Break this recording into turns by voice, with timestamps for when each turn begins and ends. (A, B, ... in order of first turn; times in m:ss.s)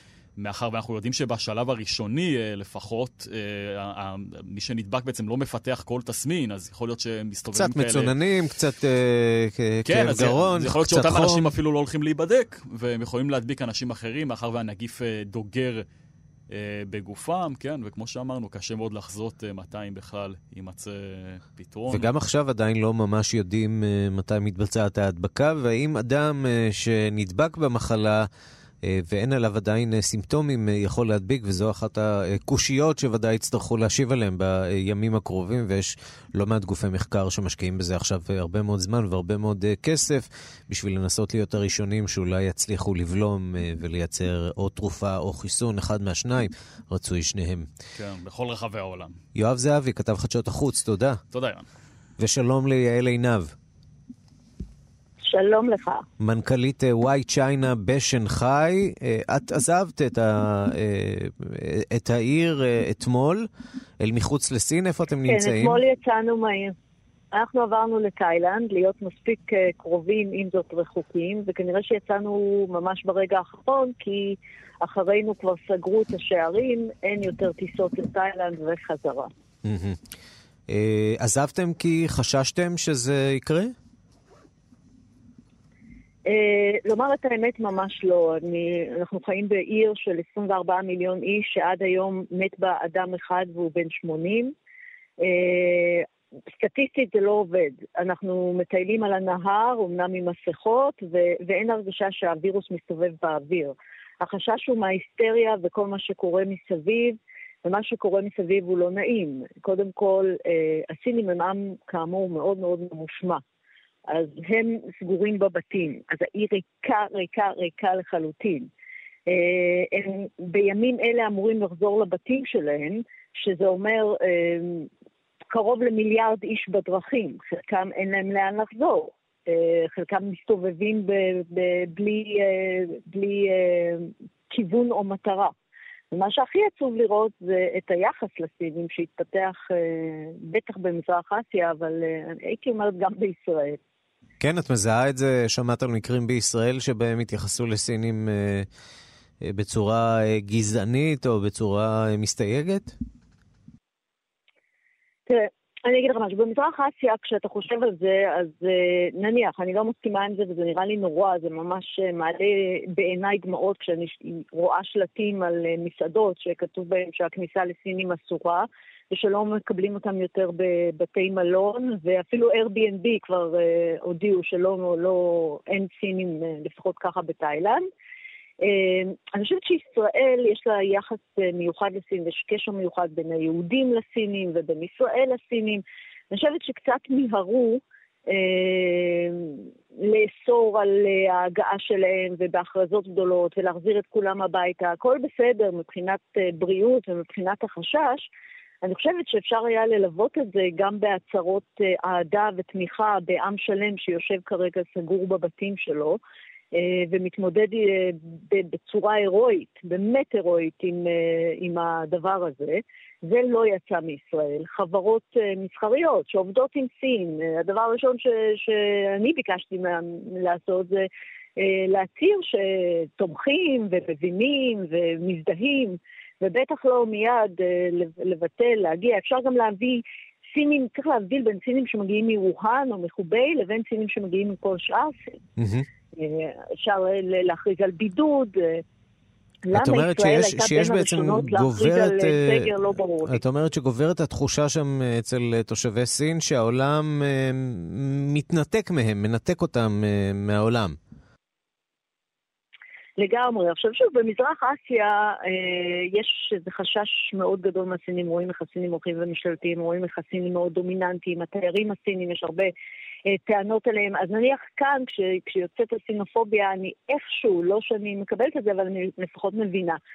0:00.4-0:08.1 A
0:07.5-0:11.4 B
0:09.9-0:15.8 A
0:16.5-0:22.1 A
0:21.9-0:28.3 B
0:28.8-0:47.7 B
0:48.0-0:49.2 A
0:49.3-0:51.2 B
0:51.3-0:51.6 A
0:52.2-0:53.5 B
0:55.2-0:56.0 C
0:56.2-1:03.5 B
1:04.0-1:05.8 B
1:05.3-1:06.7 C
1:07.3-1:19.3 C
1:19.6-1:20.0 B
1:20.7-1:23.7 B
1:26.3-1:34.5 C
1:35.2-1:53.4 C
1:54.1-1:58.7 C
1:59.3-2:04.9 C
2:05.5-2:15.5 C
2:16.1-2:23.8 C
2:24.4-2:28.7 B
2:29.4-2:33.0 B
2:35.3-2:57.9 C
2:58.6-3:18.3 C
3:18.8-3:26.2 C
3:26.7-3:55.2 C
3:55.6-3:55.9 B
3:56.2-3:58.8 C
3:59.7-4:03.4 C
3:59.7-4:11.0 B
4:13.2-4:22.7 C
4:23.3-4:30.0 C